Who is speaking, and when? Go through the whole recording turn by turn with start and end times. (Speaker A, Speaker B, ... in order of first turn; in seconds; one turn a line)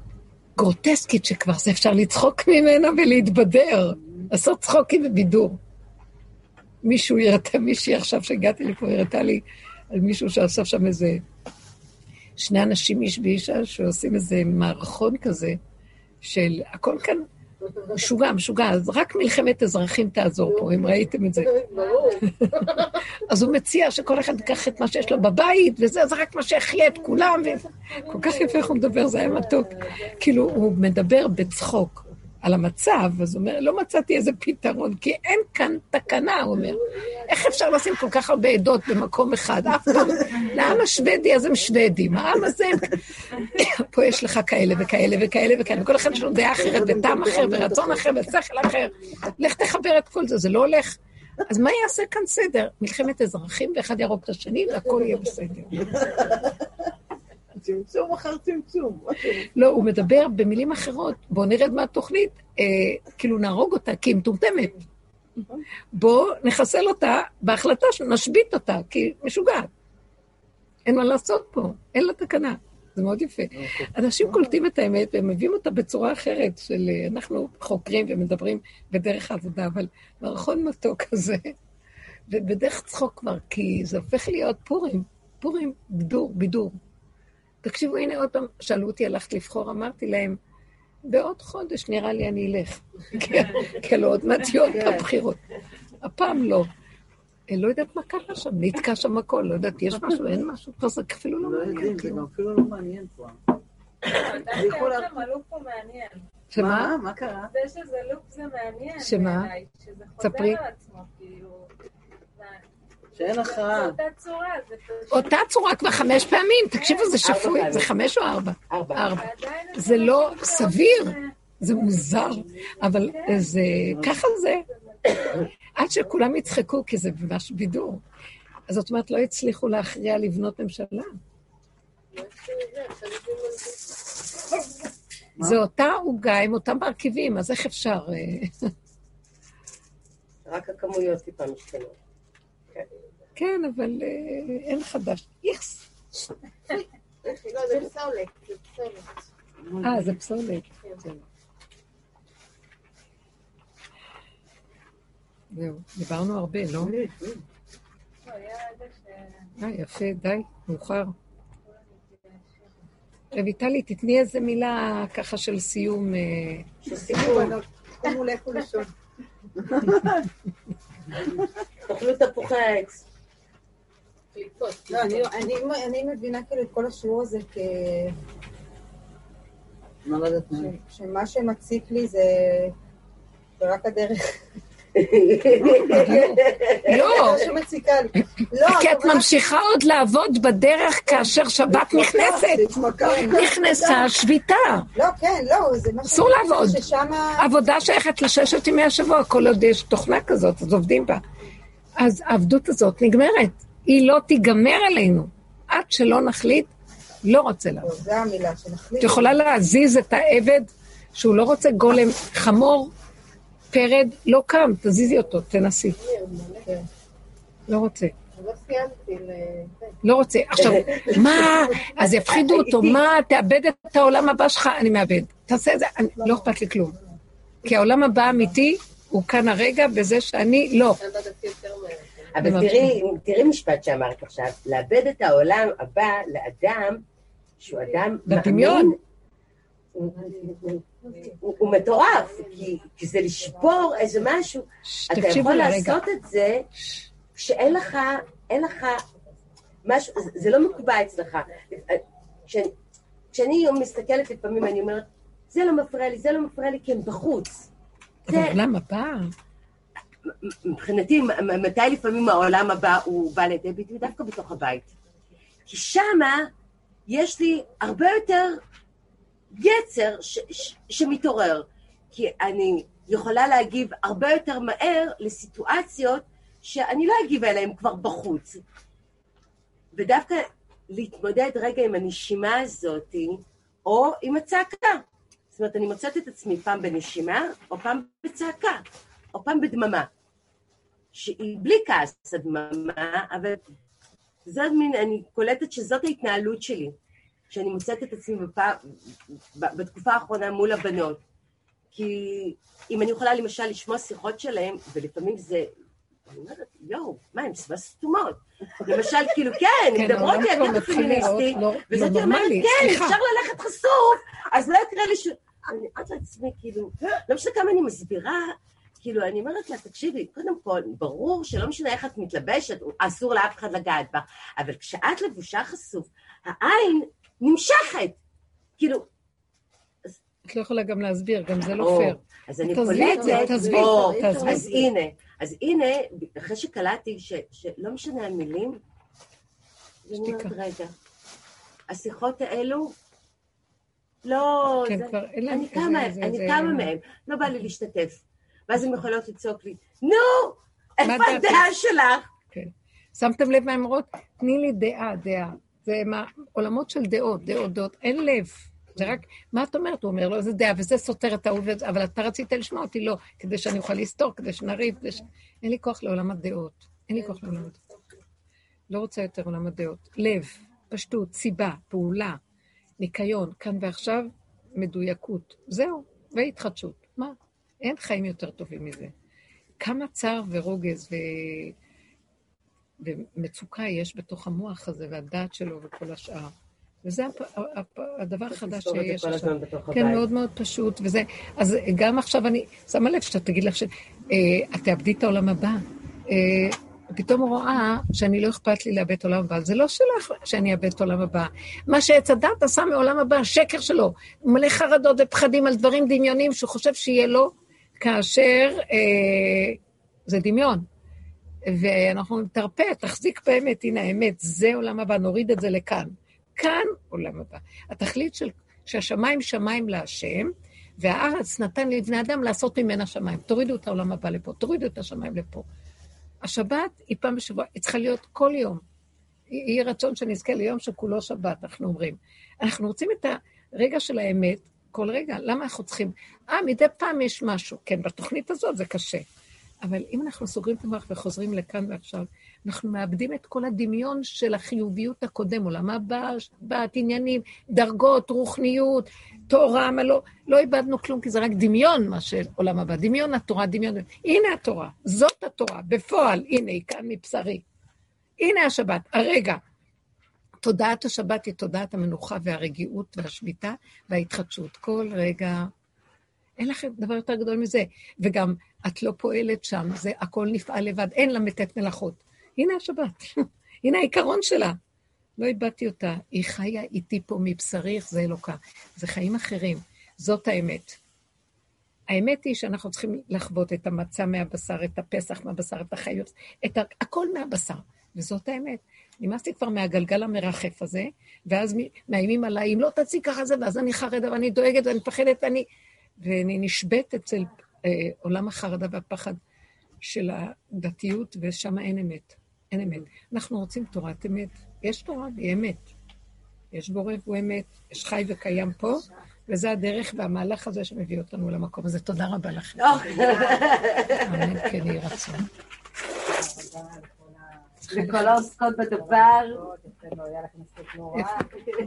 Speaker A: 0.6-5.6
Speaker A: 6.8-11.2
Speaker A: 12.4-15.6
Speaker A: 16.2-17.2
Speaker A: 17.9-55.9
Speaker B: 20.5-23.0
Speaker B: 27.2-30.2
Speaker B: 36.5-37.6
Speaker C: 46.5-48.0
Speaker C: 56.0-56.5
Speaker C: 57.5-59.4
Speaker A: 59.3-64.8
Speaker A: 65.9-69.7
Speaker A: 70.9-81.5
Speaker A: 82.3-86.8
Speaker A: 87.6-90.4
Speaker A: 91.0-95.4
Speaker C: 94.7-95.0
Speaker A: 96.0-96.7
Speaker A: 97.5-102.2
Speaker C: 101.4-103.4
Speaker B: 104.0-106.2
Speaker C: 104.5-105.1
Speaker A: 106.5-106.9
Speaker C: 106.5-107.5
Speaker B: 107.5-111.7
Speaker A: 109.0-109.5
Speaker A: 110.2-110.6
Speaker B: 112.3-115.3
Speaker C: 113.1-114.0
Speaker A: 115.1-124.7
Speaker B: 116.8-117.1
Speaker D: 117.2-117.9
Speaker D: 118.7-119.1
Speaker B: 119.0-121.3
Speaker B: 122.8-123.7
Speaker C: 123.9-124.1
Speaker B: 125.0-125.3
Speaker A: 125.8-128.0
Speaker A: 128.7-131.1
Speaker B: 132.1-134.0
Speaker A: 135.4-138.7
Speaker D: 140.4-141.9
Speaker A: 143.3-145.9
Speaker B: 147.2-149.2
Speaker C: 149.7-150.1
Speaker A: 149.8-151.2
Speaker A: 155.5-156.9
Speaker C: 156.8-157.4
Speaker B: 158.2-159.5
Speaker A: 159.6-161.1
Speaker B: 161.7-162.7
Speaker A: 163.3-167.6
Speaker E: 166.9-168.9
Speaker D: 171.9-173.0
Speaker B: 174.3-175.3
Speaker E: 174.9-178.1
Speaker C: 180.0-180.7
Speaker E: 180.6-182.7
Speaker E: 183.6-184.4
Speaker D: 184.9-187.4
Speaker A: 185.6-187.6
Speaker E: 187.0-189.4
Speaker A: 188.6-194.9
Speaker E: 191.7-194.1
Speaker E: 194.9-197.4
Speaker A: 196.0-196.8
Speaker A: 197.4-201.2
Speaker A: 202.0-206.7
Speaker A: 207.2-208.0
Speaker E: 207.8-209.3
Speaker A: 209.0-212.9
Speaker A: 213.7-216.0
Speaker B: 215.9-216.7
Speaker A: 217.7-218.1
Speaker B: 218.3-220.0
Speaker A: 220.0-227.0
Speaker D: 220.6-223.0
Speaker A: 227.6-231.0
Speaker B: 231.0-232.4
Speaker D: 232.3-237.0
Speaker A: 232.4-233.0
Speaker D: 237.6-239.0
Speaker A: 238.2-238.9
Speaker D: 239.9-246.7
Speaker B: 241.0-241.3
Speaker B: 241.9-242.3
Speaker A: 244.8-246.0
Speaker A: 246.7-247.1
Speaker D: 247.3-249.0
Speaker D: 249.8-252.7
Speaker D: 253.3-257.7
Speaker A: 258.3-259.3
Speaker D: 258.3-258.6
Speaker D: 260.5-264.9
Speaker D: 265.7-266.5
Speaker D: 267.1-268.6
Speaker D: 269.5-278.6
Speaker D: 279.9-290.1
Speaker D: 291.1-293.6
Speaker D: 294.4-296.9
Speaker D: 297.5-301.2
Speaker D: 301.9-305.7
Speaker D: 306.3-328.2
Speaker A: 309.9-313.2
Speaker D: 328.8-329.1
Speaker A: 330.4-334.8
Speaker D: 331.8-338.8
Speaker E: 332.8-334.9
Speaker D: 340.1-340.9
Speaker A: 340.1-340.5
Speaker D: 341.9-342.9
Speaker D: 344.2-352.3
Speaker A: 344.8-346.9
Speaker A: 351.0-351.7
Speaker A: 352.5-367.8
Speaker A: 368.9-372.4
Speaker A: 373.0-379.1
Speaker A: 379.8-381.7
Speaker A: 383.0-386.5
Speaker A: 387.0-410.9
Speaker D: 388.5-390.2
Speaker A: 411.6-425.6
Speaker A: 426.4-428.8
Speaker A: 429.5-439.2
Speaker A: 439.8-457.6
Speaker A: 458.4-459.6
Speaker A: 460.6-465.7
Speaker A: 466.6-474.8
Speaker A: 475.4-481.0
Speaker A: 482.1-495.6
Speaker A: 496.2-499.4
Speaker A: 500.0-505.8
Speaker A: 506.7-513.4
Speaker D: 512.8-514.7
Speaker A: 514.1-515.5
Speaker E: 516.5-517.3
Speaker D: 517.9-519.7
Speaker E: 519.7-521.2